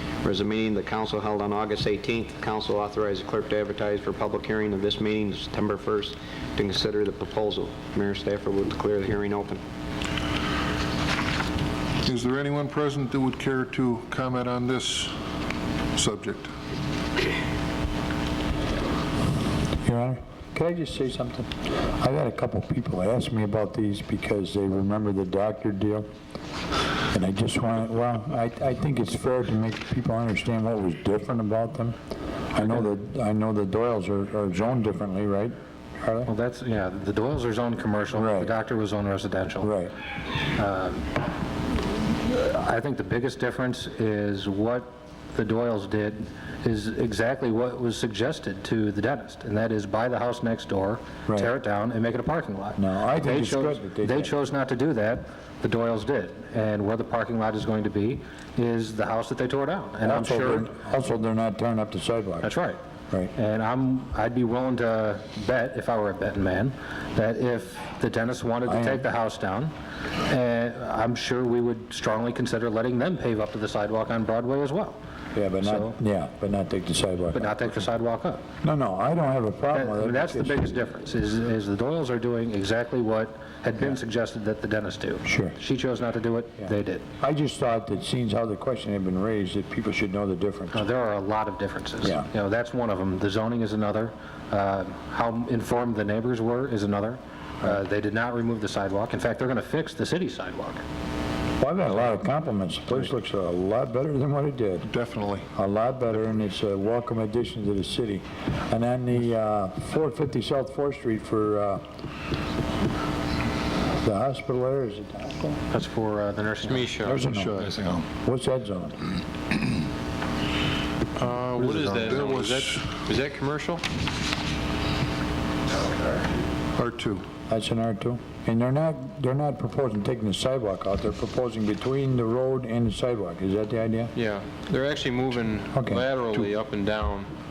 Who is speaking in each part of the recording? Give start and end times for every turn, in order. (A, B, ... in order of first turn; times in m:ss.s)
0:00.2-0:09.6 A
0:12.0-0:15.2 B
0:16.0-0:16.5 B
0:19.8-0:26.1 C
0:27.1-0:32.0 C
0:32.5-0:36.3 C
0:36.3-0:39.7 D
0:38.1-0:38.5 C
0:39.6-0:39.9 C
0:40.6-0:41.1 D
0:42.3-1:00.7 D
0:51.3-0:51.5 C
0:52.8-0:54.3 C
1:00.0-1:02.5 C
1:02.4-1:02.8 D
1:03.3-1:09.7 D
1:08.7-1:09.0 C
1:10.3-1:15.0 D
1:15.4-1:17.6 C
1:15.6-1:16.0 D
1:17.3-1:18.4 D
1:18.6-1:20.8 C
1:19.7-1:27.0 D
1:25.2-1:25.6 C
1:27.2-1:30.9 C
1:30.7-1:40.8 D
1:41.6-1:44.9 C
1:44.9-1:45.5 B
1:45.5-1:51.8 C
1:54.0-1:55.6 C
1:55.7-1:57.0 D
1:56.6-1:57.2 E
1:57.0-1:57.6 C
1:57.2-1:58.0 B
1:57.6-1:57.8 D
1:58.2-1:59.1 C
2:01.2-2:03.8 E
2:01.6-2:02.8 B
2:06.8-2:07.2 B
2:07.5-2:14.1 C
2:14.2-2:17.3 E
2:15.7-2:16.0 C